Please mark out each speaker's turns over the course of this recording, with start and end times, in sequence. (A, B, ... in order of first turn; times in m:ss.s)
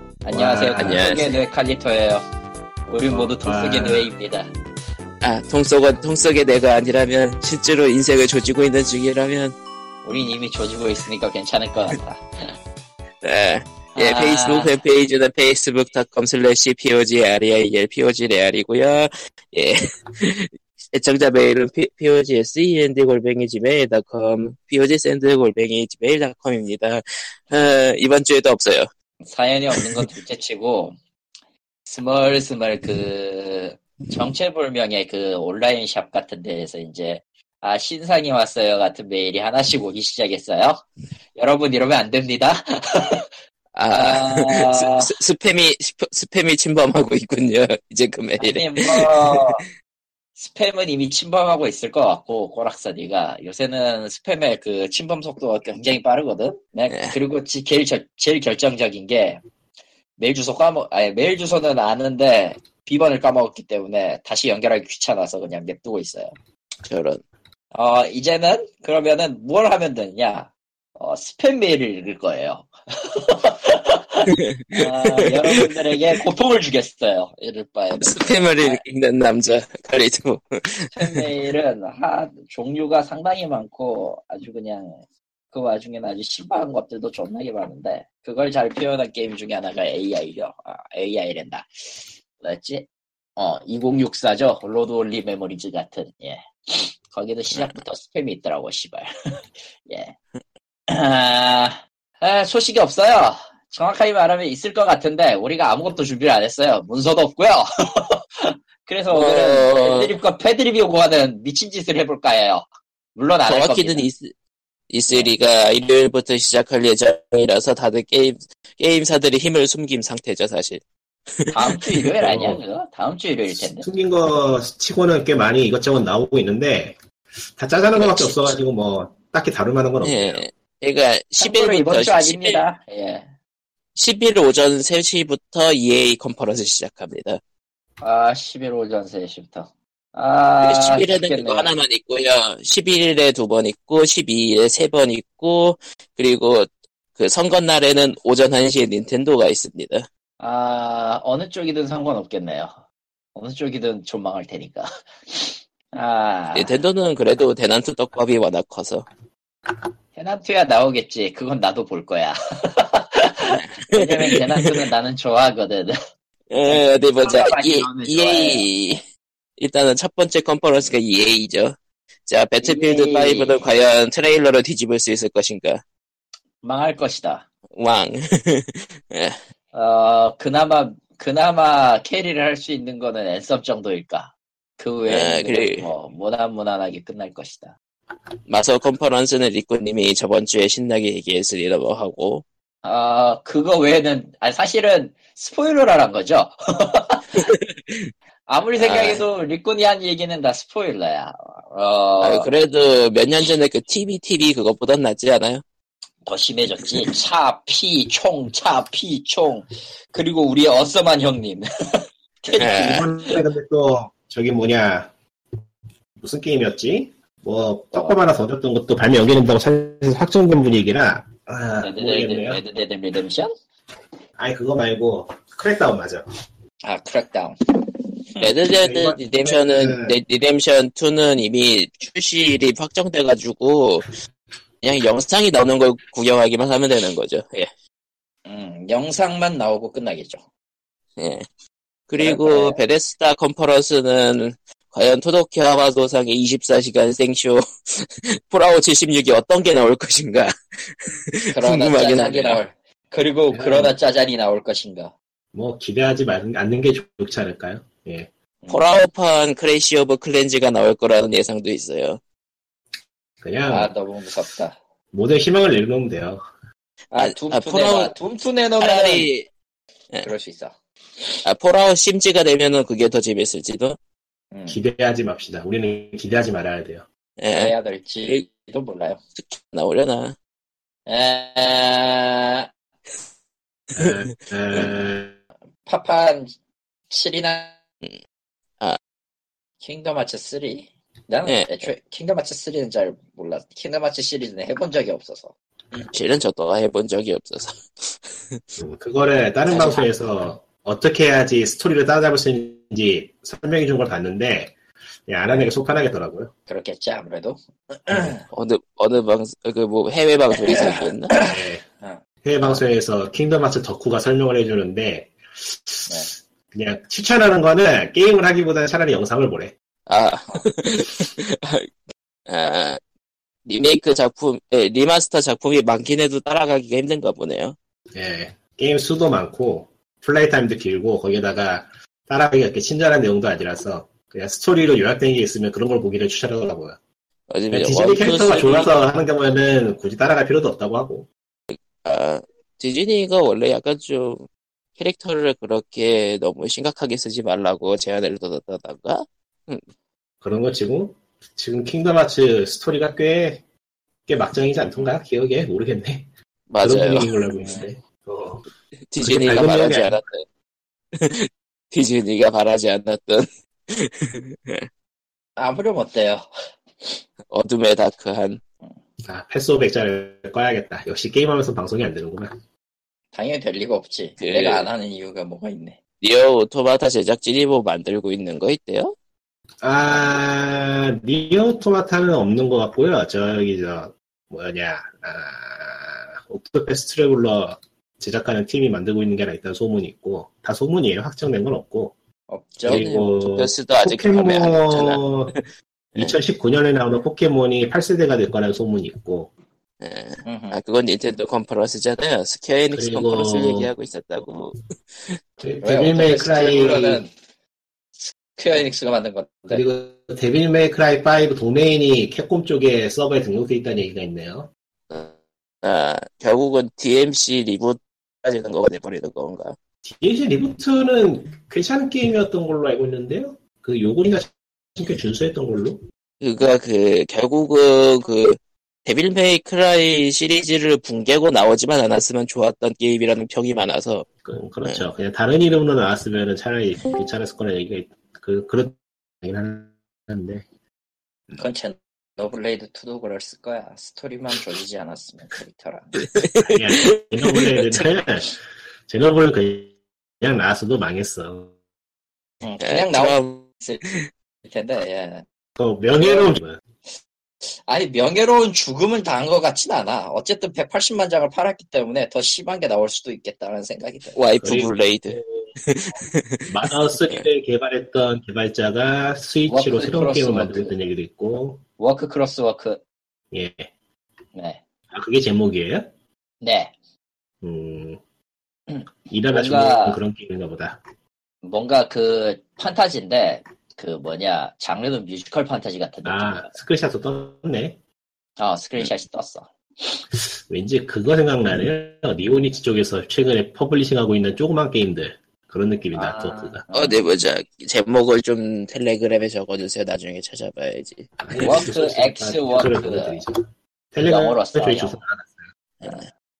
0:00.2-0:02.2 A
0:00.3-0:01.1 B
0:00.8-0:01.4 C
0:02.9-0:04.5 A
0:03.1-0:04.1 B
0:05.2-0:09.6 C
0:10.0-0:12.2 A
0:13.2-0:28.9 C
0:13.9-0:14.8 A
0:29.2-0:30.9 A
0:29.7-0:30.0 C
0:31.8-0:40.8 A
0:41.4-0:43.3 A
0:43.7-0:49.6 C
0:43.9-0:45.2 A
0:48.4-0:49.6 A
0:50.4-0:59.4 A
0:56.9-0:57.1 C
1:00.2-1:06.3 A
1:06.8-1:07.2 C
1:07.7-1:18.8 A
1:14.3-1:15.7 C
1:18.0-1:21.3 C
1:20.9-1:25.0 A
1:25.5-1:39.1 A
1:39.8-1:40.2 A
1:40.9-1:54.1 A
1:49.1-1:50.1 C
1:53.4-1:54.3 C
1:54.9-2:00.8 C
2:01.4-2:02.1 C
2:01.5-2:03.9 A
2:02.2-2:02.6 B
2:03.8-2:07.0 B
2:07.6-2:10.4 B
2:08.0-2:08.6 C
2:10.0-2:12.6 C
2:11.4-2:13.3 A
2:14.0-2:17.4 C
2:18.0-2:21.7 A
2:20.6-2:30.1 C
2:30.4-2:32.8 A
2:33.3-2:36.7 A
2:36.5-2:39.0 C
2:40.1-2:46.0 A
2:43.5-2:44.8 C
2:46.5-2:49.0 C
2:46.6-2:48.7 A
2:49.6-2:55.8 C
2:52.6-2:53.6 A
2:56.6-2:57.4 A
2:57.8-2:59.4 C
2:59.7-3:07.7 A
3:05.1-3:05.9 C
3:08.5-3:12.4 C
3:12.8-3:17.4 A
3:17.3-3:18.1 C
3:18.5-3:22.5 A
3:18.8-3:19.2 C
3:22.2-3:25.6 C
3:26.2-3:33.4 A
3:32.5-3:33.1 C
3:32.6-3:35.1 B
3:36.2-3:42.6 B
3:37.9-3:38.2 A
3:41.8-3:43.5 A
3:44.4-3:46.2 B
3:46.8-3:48.5 A
3:48.4-3:54.1 C
3:48.8-3:50.2 B
3:54.8-3:57.7 C
3:58.4-4:00.4 A
4:01.2-4:01.4 C
4:02.1-4:12.6 C
4:02.2-4:02.8 A
4:11.5-4:15.1 A
4:13.5-4:13.9 B
4:15.5-4:18.3 B
4:18.6-4:19.0 A
4:18.7-4:22.2 C
4:23.4-4:23.9 B
4:23.7-4:24.8 A
4:25.1-4:26.4 B
4:27.1-4:29.3 A
4:27.1-4:28.1 C
4:28.8-4:29.5 C
4:30.2-4:30.7 A
4:31.4-4:34.0 C
4:34.5-4:34.8 A
4:34.7-4:37.0 B
4:37.4-4:38.4 C
4:37.5-4:39.2 A
4:39.4-4:40.4 C
4:41.1-4:42.7 A
4:44.0-4:45.4 B
4:44.0-4:45.0 C
4:45.8-4:46.5 A
4:47.1-4:47.8 A
4:49.8-4:55.5 A
4:51.4-4:51.9 C
4:56.1-4:58.6 C
4:58.8-5:04.7 B
4:59.7-5:00.1 A
5:05.3-5:06.5 B
5:06.7-5:08.5 A
5:08.5-5:11.3 C
5:10.7-5:12.8 A
5:11.4-5:11.8 B
5:12.4-5:16.2 B
5:16.1-5:16.3 A
5:16.7-5:19.7 B
5:20.1-5:21.9 C
5:22.5-5:23.0 C
5:23.6-5:27.8 C
5:28.1-5:37.0 B
5:37.5-5:38.9 C
5:37.7-5:41.3 B
5:41.7-5:44.4 C
5:45.0-5:49.8 C
5:50.4-5:53.6 B
5:54.3-5:56.3 B
5:56.7-5:57.3 C
5:56.8-5:58.6 B
5:57.5-5:57.9 A
5:59.1-6:00.4 C
5:59.2-6:00.2 B
6:01.1-6:04.9 C
6:05.6-6:06.5 A
6:07.5-6:08.6 C
6:09.2-6:12.5 B
6:13.3-6:16.0 A
6:14.4-6:14.9 C
6:16.2-6:19.1 C
6:19.8-6:32.1 B
6:20.0-6:20.4 A
6:32.5-6:33.1 A
6:32.8-6:35.6 B
6:32.8-6:35.6 C
6:36.2-6:39.5 B
6:40.0-6:44.7 C
6:40.4-6:40.8 A
6:42.9-6:43.9 B
6:45.6-6:47.2 B
6:45.8-6:47.3 A
6:48.2-6:49.8 A
6:49.7-6:54.7 B
6:55.1-6:59.8 C
7:00.0-7:06.0 B
7:06.4-7:14.2 C
7:14.4-7:20.6 B
7:21.6-7:26.3 A
7:26.2-7:28.0 C
7:26.6-7:31.7 B
7:32.6-7:34.0 A
7:32.8-7:34.3 C
7:34.6-7:35.4 A
7:35.8-7:36.8 B
7:36.2-7:36.6 A
7:37.8-7:44.4 A
7:44.4-7:47.5 C
7:44.6-7:45.7 B
7:46.7-7:51.8 B
7:49.7-7:51.0 A
7:52.0-7:53.0 A
7:53.5-7:53.9 B
7:54.5-7:54.8 A
7:55.1-7:56.1 B
7:56.6-7:56.9 A
7:57.6-7:58.2 B
7:58.9-8:00.2 A
7:59.3-8:01.0 B
8:01.6-8:06.7 A
8:06.2-8:08.0 B
8:08.6-8:10.2 A
8:10.7-8:16.8 B
8:16.1-8:17.2 A
8:16.9-8:21.8 C
8:21.4-8:23.6 B
8:21.6-8:23.4 A
8:24.1-8:25.6 B
8:24.2-8:25.2 A
8:26.0-8:26.3 A